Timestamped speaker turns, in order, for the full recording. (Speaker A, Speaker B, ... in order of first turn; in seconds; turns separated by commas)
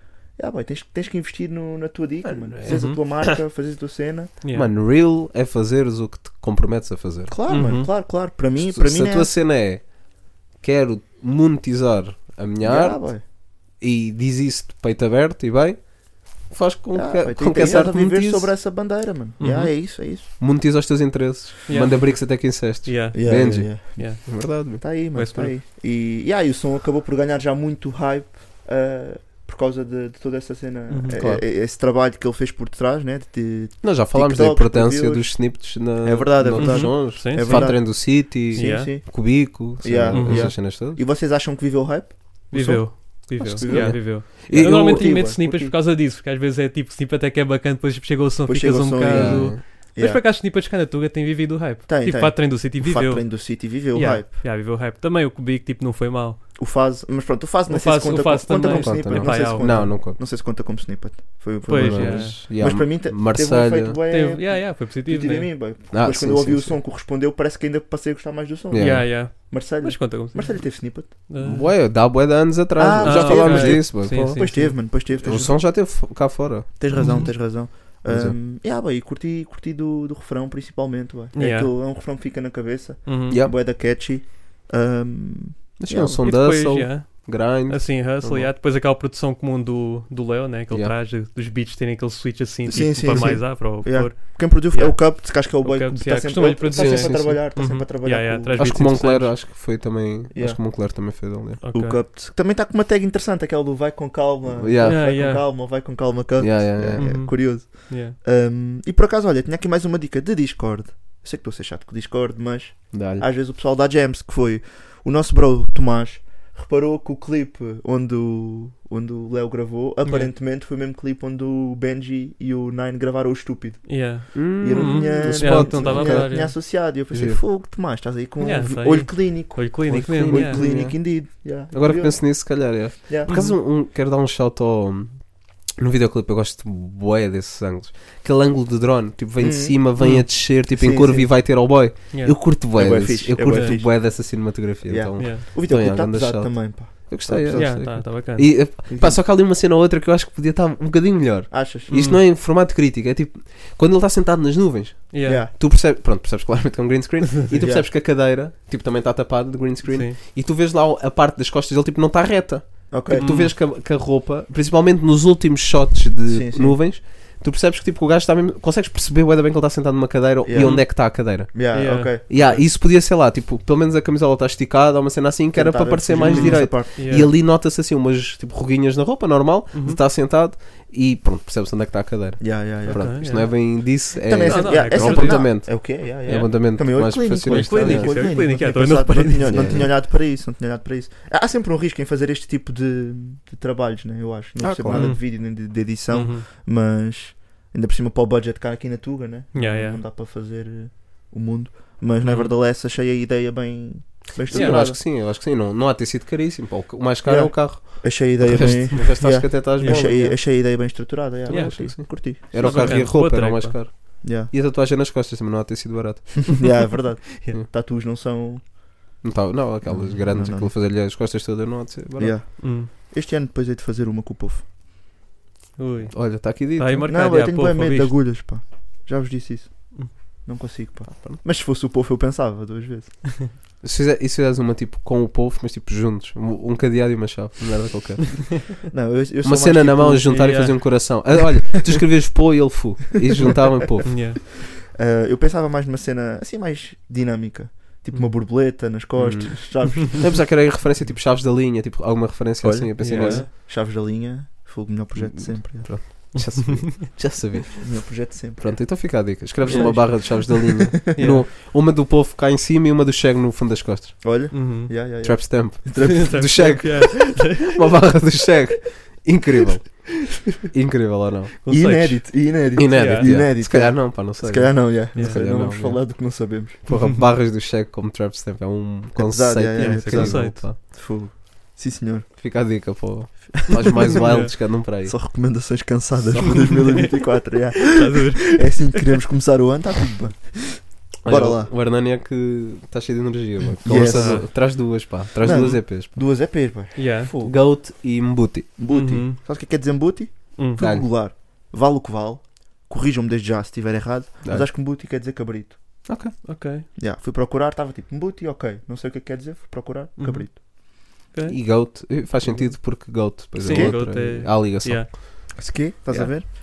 Speaker A: 0.3-4.3, Speaker B: 2.2-3.4, Speaker C: 2.6-3.0, Speaker C: 4.4-4.7, Speaker B: 4.5-7.7, Speaker A: 7.3-9.3, Speaker C: 7.5-7.9, Speaker B: 8.6-18.5, Speaker A: 12.6-13.2, Speaker A: 16.9-20.3, Speaker C: 17.6-17.9, Speaker C: 19.4-19.7, Speaker B: 20.4-24.8, Speaker C: 21.7-25.5, Speaker A: 23.1-45.7, Speaker C: 30.9-31.2, Speaker B: 31.1-31.4, Speaker B: 33.8-41.0, Speaker C: 36.5-38.9, Speaker C: 40.1-40.6, Speaker C: 42.5-56.4, Speaker B: 43.4-45.1, Speaker A: 48.5-50.2, Speaker B: 49.1-49.6, Speaker A: 51.9-54.3, Speaker A: 56.5-71.1, Speaker C: 57.7-59.9, Speaker B: 58.7-60.2, Speaker C: 61.6-62.4, Speaker B: 61.7-64.0, Speaker C: 64.1-65.5, Speaker B: 65.9-66.8, Speaker B: 68.7-69.1, Speaker C: 68.7-71.7, Speaker B: 71.4-77.3, Speaker A: 72.8-75.6, Speaker C: 73.0-74.7, Speaker A: 76.8-86.2, Speaker C: 76.9-77.3, Speaker B: 78.1-78.4, Speaker C: 81.3-81.7, Speaker C: 83.0-83.4, Speaker B: 85.8-88.5, Speaker C: 86.2-99.3, Speaker A: 92.7-99.2, Speaker B: 93.1-93.4, Speaker B: 96.7-97.4, Speaker B: 98.6-101.6, Speaker A: 100.3-100.6, Speaker C: 101.6-102.0, Speaker A: 101.7-133.3, Speaker B: 104.6-105.1, Speaker C: 104.8-105.4, Speaker B: 106.4-107.2, Speaker C: 106.9-108.2, Speaker B: 112.9-113.2, Speaker C: 120.0-120.3, Speaker C: 123.8-126.5, Speaker B: 124.3-126.3, Speaker B: 127.1-127.4, Speaker C: 128.4-130.7, Speaker B: 129.9-188.4, Speaker C: 133.3-133.6, Speaker A: 139.4-141.3, Speaker C: 140.0-140.3, Speaker C: 142.1-142.4, Speaker A: 142.7-148.1, Speaker C: 143.5-143.8, Speaker C: 145.2-145.4, Speaker C: 147.5-148.6, Speaker A: 148.9-149.2, Speaker A: 151.5-151.9, Speaker C: 151.9-152.2, Speaker C: 155.1-155.4, Speaker A: 155.2-155.5, Speaker A: 157.5-157.9, Speaker C: 159.8-160.2, Speaker A: 162.9-163.3, Speaker C: 163.1-163.5, Speaker A: 166.3-166.8, Speaker A: 170.4-172.6, Speaker C: 170.6-170.9, Speaker C: 171.7-172.6, Speaker A: 175.5-177.3, Speaker C: 176.2-177.3, Speaker C: 179.7-180.0, Speaker A: 182.4-205.0, Speaker C: 182.8-185.6, Speaker C: 186.2-186.5, Speaker C: 187.4-189.9, Speaker B: 189.5-190.0, Speaker B: 194.6-195.1, Speaker C: 194.9-196.4, Speaker C: 199.5-200.0, Speaker C: 202.2-202.5, Speaker B: 204.5-210.4, Speaker C: 204.5-204.9, Speaker A: 207.2-213.2, Speaker C: 209.8-210.1, Speaker B: 211.5-216.7, Speaker C: 211.5-213.8, Speaker A: 214.2-214.5, Speaker A: 216.5-218.7, Speaker B: 219.2-222.4, Speaker A: 219.8-220.7, Speaker A: 222.2-224.6, Speaker C: 222.6-222.9, Speaker C: 225.8-228.2, Speaker B: 226.1-227.1, Speaker A: 227.1-233.3, Speaker B: 231.1-231.4, Speaker B: 233.8-238.7, Speaker A: 238.9-240.6, Speaker B: 239.4-244.2, Speaker C: 240.3-241.3, Speaker C: 244.0-244.4, Speaker A: 244.9-250.4, Speaker B: 249.2-253.5, Speaker A: 252.6-256.2, Speaker C: 253.0-253.5, Speaker B: 255.1-264.7, Speaker C: 256.3-256.9, Speaker A: 257.8-260.8, Speaker C: 259.6-260.5, Speaker C: 261.1-261.5, Speaker A: 264.2-266.9, Speaker C: 264.5-264.9, Speaker B: 265.2-271.6, Speaker C: 266.0-267.7, Speaker C: 271.6-273.3, Speaker A: 271.7-276.8, Speaker B: 272.8-280.8, Speaker C: 275.1-275.4, Speaker C: 276.9-277.2, Speaker A: 279.1-282.3, Speaker C: 279.7-280.6, Speaker B: 282.4-285.2, Speaker A: 284.0-291.7, Speaker C: 284.1-284.5, Speaker C: 286.6-287.2, Speaker C: 287.8-289.1, Speaker B: 291.2-296.1, Speaker A: 293.8-297.6, Speaker C: 293.9-294.5, Speaker C: 296.9-297.3, Speaker B: 297.4-298.7, Speaker A: 298.8-305.8, Speaker C: 298.9-299.4, Speaker C: 300.6-300.8, Speaker B: 300.8-301.1, Speaker B: 306.1-306.3, Speaker C: 306.4-306.9, Speaker A: 306.9-310.6, Speaker C: 310.2-310.6, Speaker C: 311.2-311.9, Speaker B: 311.5-315.5, Speaker C: 312.4-315.1, Speaker A: 313.6-314.0, Speaker A: 315.5-316.5